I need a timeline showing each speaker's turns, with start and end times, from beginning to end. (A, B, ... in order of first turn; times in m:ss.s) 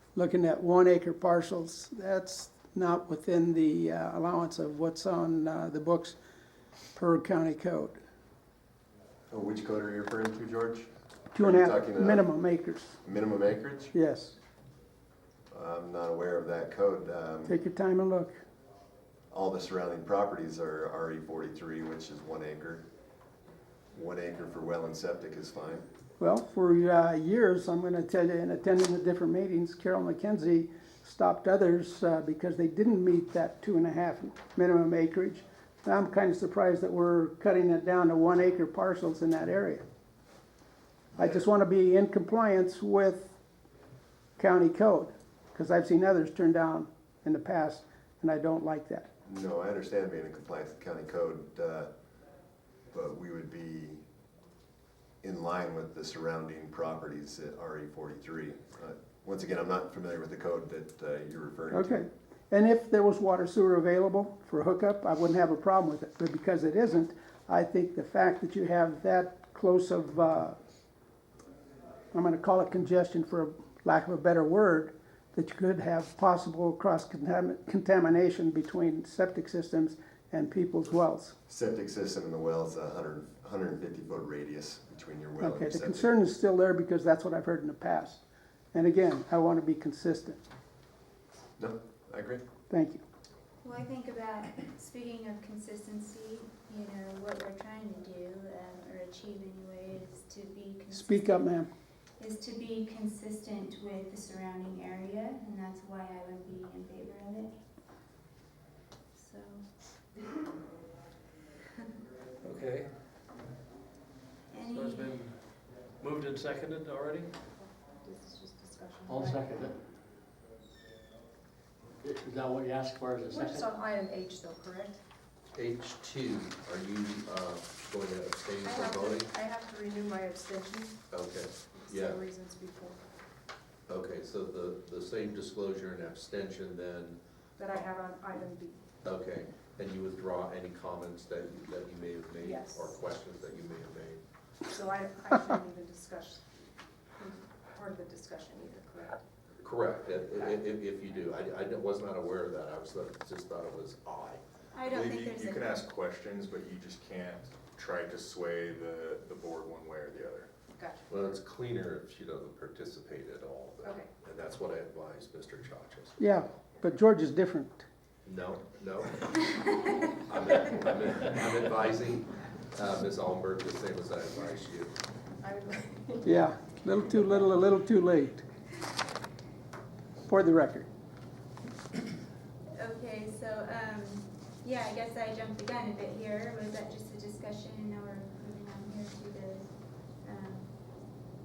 0:00.1-0:06.2 A
0:06.9-0:08.0 A
0:09.3-0:12.3 B
0:11.3-0:12.9 A
0:13.0-0:13.9 B
0:13.9-0:14.3 A
0:15.5-0:17.5 B
0:17.5-0:18.3 A
0:19.3-0:22.9 B
0:23.9-0:25.8 B
0:26.2-0:39.8 A
0:41.2-0:43.3 A
0:44.4-0:49.1 A
0:49.2-0:51.9 B
0:52.9-0:54.0 B
0:55.2-1:02.0 B
1:01.7-1:10.6 A
1:12.1-1:21.3 A
1:21.5-1:26.1 B
1:25.4-1:28.2 A
1:28.7-1:30.4 A
1:31.6-1:32.4 B
1:32.7-1:33.0 A
1:33.6-1:41.6 C
1:40.9-1:41.7 A
1:42.2-1:47.5 C
1:49.1-1:49.6 C
1:52.4-1:52.9 D
1:54.5-1:55.2 C
1:54.6-1:55.4 D
1:56.0-1:57.4 D
1:57.6-1:59.6 E
1:59.0-1:59.8 F
2:02.0-2:03.8 F
2:03.3-2:05.0 E
2:05.5-2:09.3 G
2:08.6-2:11.0 E
2:11.1-2:12.2 G
2:11.7-2:13.0 E
2:13.9-2:17.2 G
2:17.6-2:18.8 E
2:19.0-2:24.2 G
2:22.4-2:23.0 E
2:24.7-2:26.5 E
2:27.2-2:29.2 E
2:29.6-2:34.4 G
2:34.7-2:35.8 C
2:34.9-2:40.5 H
2:40.8-2:41.1 E
2:41.1-2:46.2 G
2:43.8-2:44.1 E
2:46.2-2:47.8 A
2:48.2-2:54.9 G
2:55.4-2:56.5 E
2:56.2-2:58.4 A
3:00.3-3:00.9 A
3:02.8-3:10.8 C